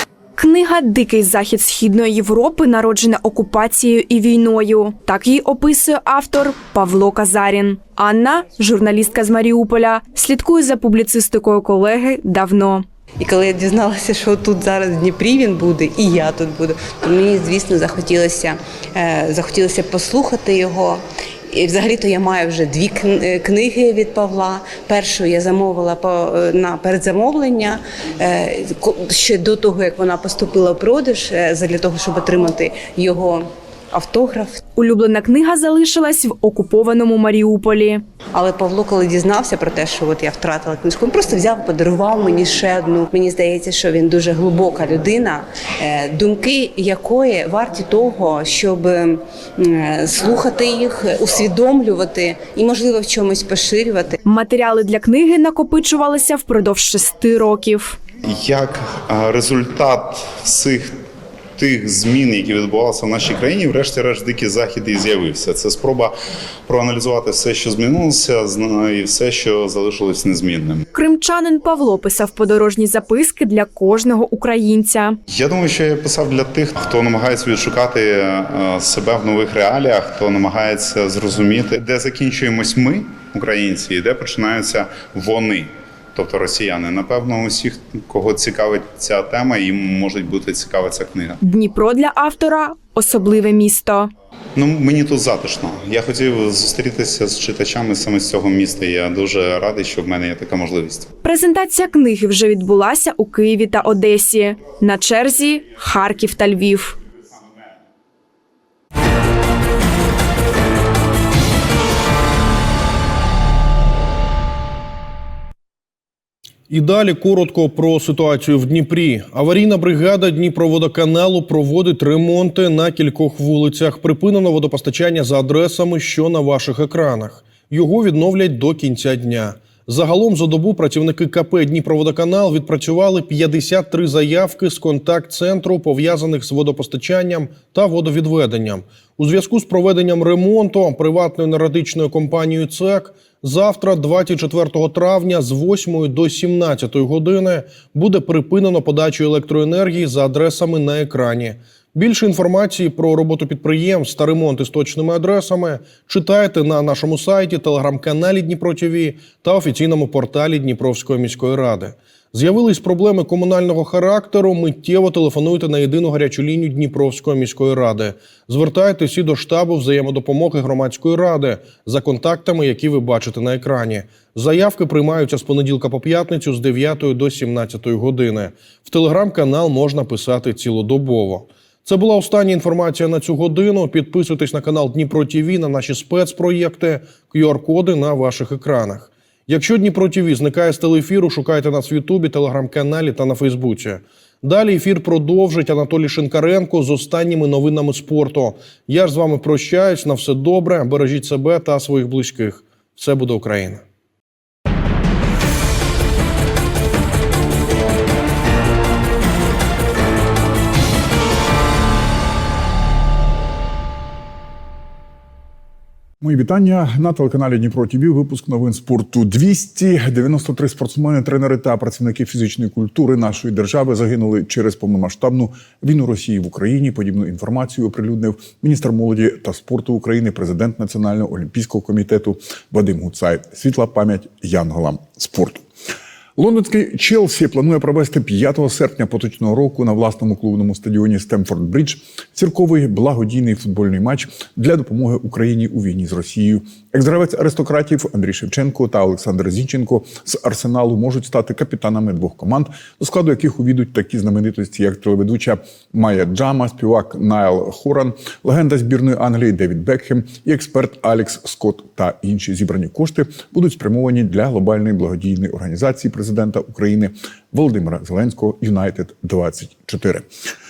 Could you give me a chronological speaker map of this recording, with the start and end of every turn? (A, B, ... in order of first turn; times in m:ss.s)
0:00.4-0:12.8 A
0:13.2-0:34.6 B
0:34.7-0:38.0 A
0:38.3-0:54.2 B
0:54.2-0:58.0 A
0:58.2-1:01.0 C
1:01.6-1:06.1 C
1:06.7-1:10.8 C
1:10.9-1:15.2 A
1:15.3-1:31.4 C
1:31.4-1:34.1 A
1:34.6-1:41.1 C
1:41.2-1:47.0 A
1:56.7-3:23.8 D
3:36.2-3:55.7 E
3:56.4-4:30.3 E